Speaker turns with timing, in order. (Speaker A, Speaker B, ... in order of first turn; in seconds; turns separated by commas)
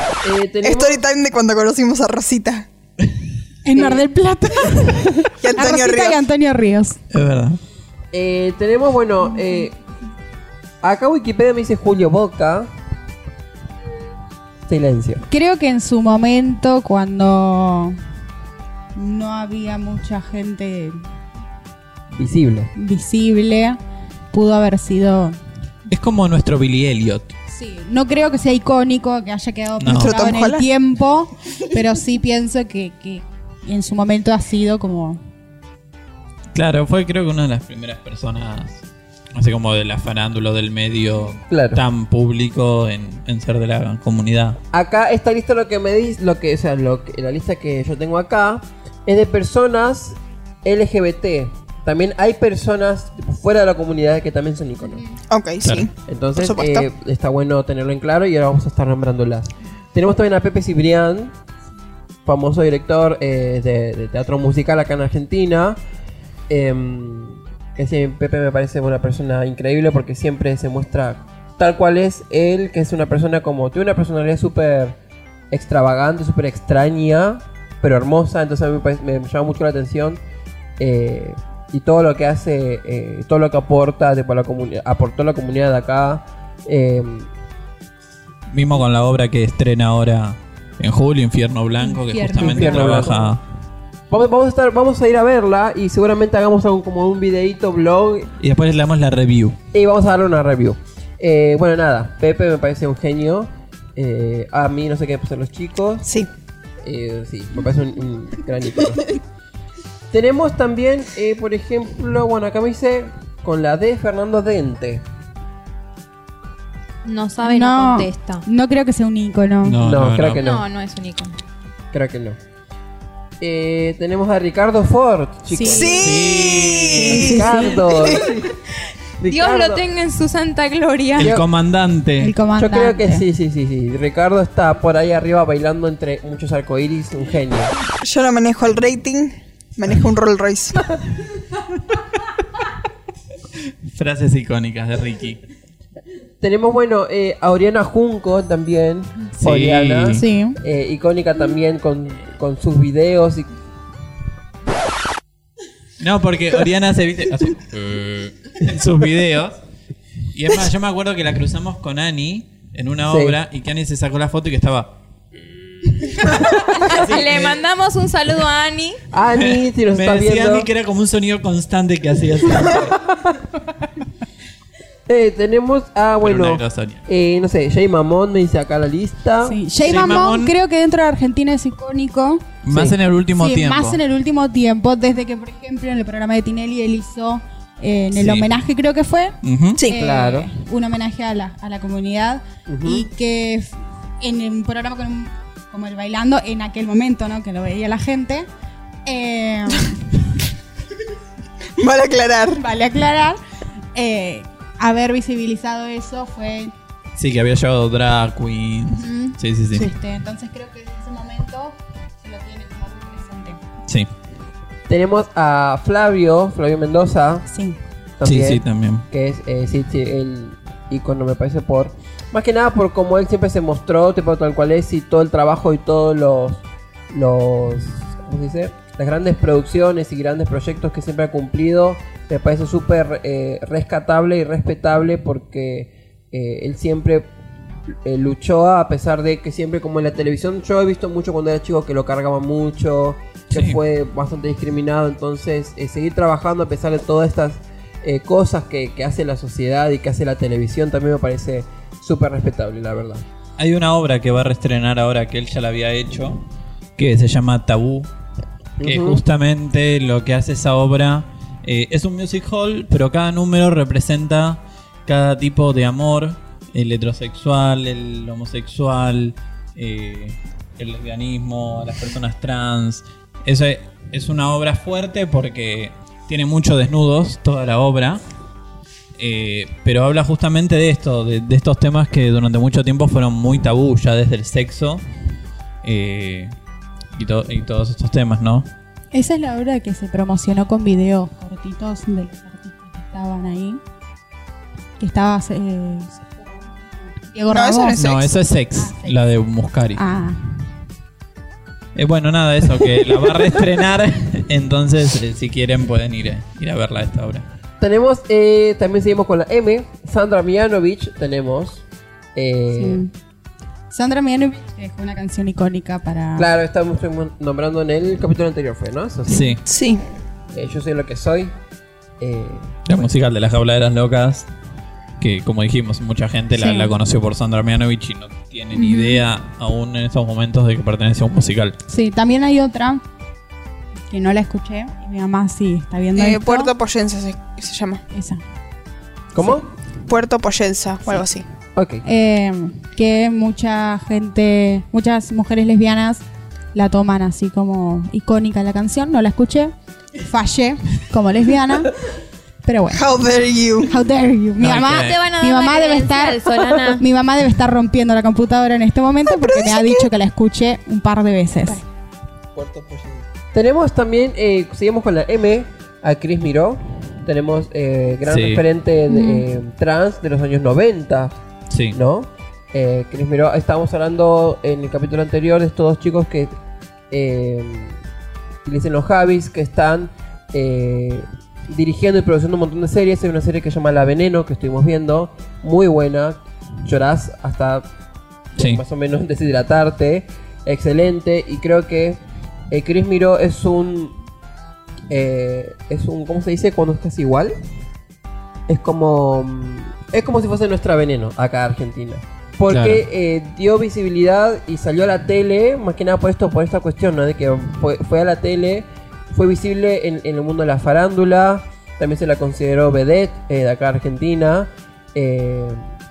Speaker A: 0.2-1.0, Speaker B: 0.6-2.7, Speaker C: 3.6-7.0, Speaker A: 3.7-4.0, Speaker B: 5.4-6.2, Speaker D: 7.1-7.6, Speaker A: 8.1-9.8, Speaker A: 10.8-12.7, Speaker A: 14.7-15.2, Speaker C: 15.3-18.0, Speaker C: 18.9-21.0, Speaker A: 22.1-22.7, Speaker C: 22.8-23.8, Speaker C: 24.3-25.4, Speaker D: 25.9-27.3, Speaker C: 27.5-35.2, Speaker D: 29.8-30.4, Speaker B: 29.9-30.7, Speaker D: 36.5-44.6, Speaker A: 41.5-41.8, Speaker A: 44.7-55.0, Speaker B: 55.3-56.9, Speaker A: 56.1-61.3, Speaker A: 62.2-65.8, Speaker A: 66.5-75.0, Speaker A: 75.5-80.2, Speaker A: 80.8-87.3, Speaker D: 88.5-93.4, Speaker E: 92.1-93.1, Speaker A: 92.3-93.3, Speaker A: 94.1-98.3, Speaker D: 98.4-99.6, Speaker A: 99.7-106.1, Speaker A: 106.8-109.2, Speaker A: 110.1-115.0, Speaker E: 117.0-118.4, Speaker C: 117.4-119.8, Speaker D: 119.6-120.5, Speaker A: 119.8-120.6, Speaker E: 120.4-121.4, Speaker A: 121.9-122.4, Speaker A: 123.4-128.5, Speaker C: 125.5-125.9, Speaker B: 125.6-128.2, Speaker D: 126.0-127.3, Speaker C: 127.0-127.8, Speaker A: 129.2-129.8, Speaker E: 129.2-131.3, Speaker D: 131.2-132.3, Speaker A: 131.2-131.4, Speaker C: 132.2-133.2, Speaker A: 132.6-137.7, Speaker B: 138.0-141.0, Speaker D: 143.9-145.4, Speaker A: 146.4-153.5, Speaker D: 149.4-150.2, Speaker C: 150.1-150.6, Speaker D: 156.0-159.6, Speaker D: 160.3-164.9, Speaker A: 163.1-163.4, Speaker D: 166.3-167.6, Speaker E: 166.8-169.0, Speaker A: 169.1-170.7, Speaker D: 169.4-172.9, Speaker A: 175.1-179.6, Speaker D: 176.2-177.0, Speaker C: 179.4-182.4, Speaker D: 179.8-180.5, Speaker D: 182.6-184.0, Speaker A: 182.7-183.0, Speaker C: 183.3-198.5, Speaker D: 188.1-188.5, Speaker D: 189.4-189.8, Speaker A: 189.8-190.5, Speaker A: 192.7-193.1, Speaker C: 199.1-200.0, Speaker B: 201.8-202.6, Speaker C: 202.6-203.4, Speaker C: 203.9-206.7, Speaker D: 207.2-209.9, Speaker C: 208.9-213.6, Speaker D: 213.8-214.1, Speaker A: 214.9-217.5, Speaker C: 217.5-217.8, Speaker A: 218.2-237.3, Speaker D: 218.2-219.0, Speaker A: 237.9-253.2, Speaker D: 243.5-243.8, Speaker D: 253.6-256.4, Speaker D: 257.0-258.1, Speaker A: 258.8-259.2, Speaker D: 258.8-278.2, Speaker D: 279.2-285.0, Speaker D: 285.8-286.5, Speaker D: 287.1-288.7, Speaker C: 289.1-293.8, Speaker C: 295.0-296.4, Speaker C: 297.2-298.0, Speaker B: 297.5-298.3, Speaker D: 297.9-300.0, Speaker C: 298.8-299.2, Speaker C: 299.9-300.6, Speaker D: 301.9-307.4, Speaker A: 307.8-313.0, Speaker C: 312.7-313.1, Speaker C: 313.9-316.5, Speaker A: 316.4-319.5, Speaker D: 319.3-319.6, Speaker B: 319.6-320.0, Speaker A: 320.5-321.5, Speaker A: 322.2-323.1, Speaker D: 322.9-324.5, Speaker D: 325.2-331.8, Speaker C: 326.6-326.9, Speaker C: 328.8-329.2, Speaker C: 331.9-333.0, Speaker C: 334.1-336.7, Speaker B: 336.1-338.0, Speaker C: 338.1-338.4, Speaker A: 339.4-339.6, Speaker B: 340.1-341.5, Speaker A: 341.8-342.0, Speaker C: 342.0-351.9, Speaker C: 352.6-353.0, Speaker B: 352.9-353.9, Speaker C: 353.9-361.8, Speaker D: 354.6-355.2, Speaker E: 354.9-357.0, Speaker B: 359.2-360.1, Speaker A: 362.6-371.4, Speaker D: 368.3-368.6, Speaker C: 369.1-369.4, Speaker D: 371.7-372.0, Speaker A: 371.9-376.5, Speaker A: 377.1-378.0, Speaker A: 378.6-387.9, Speaker A: 388.6-394.2, Speaker A: 395.1-397.5, Speaker A: 398.7-415.9, Speaker D: 402.7-403.0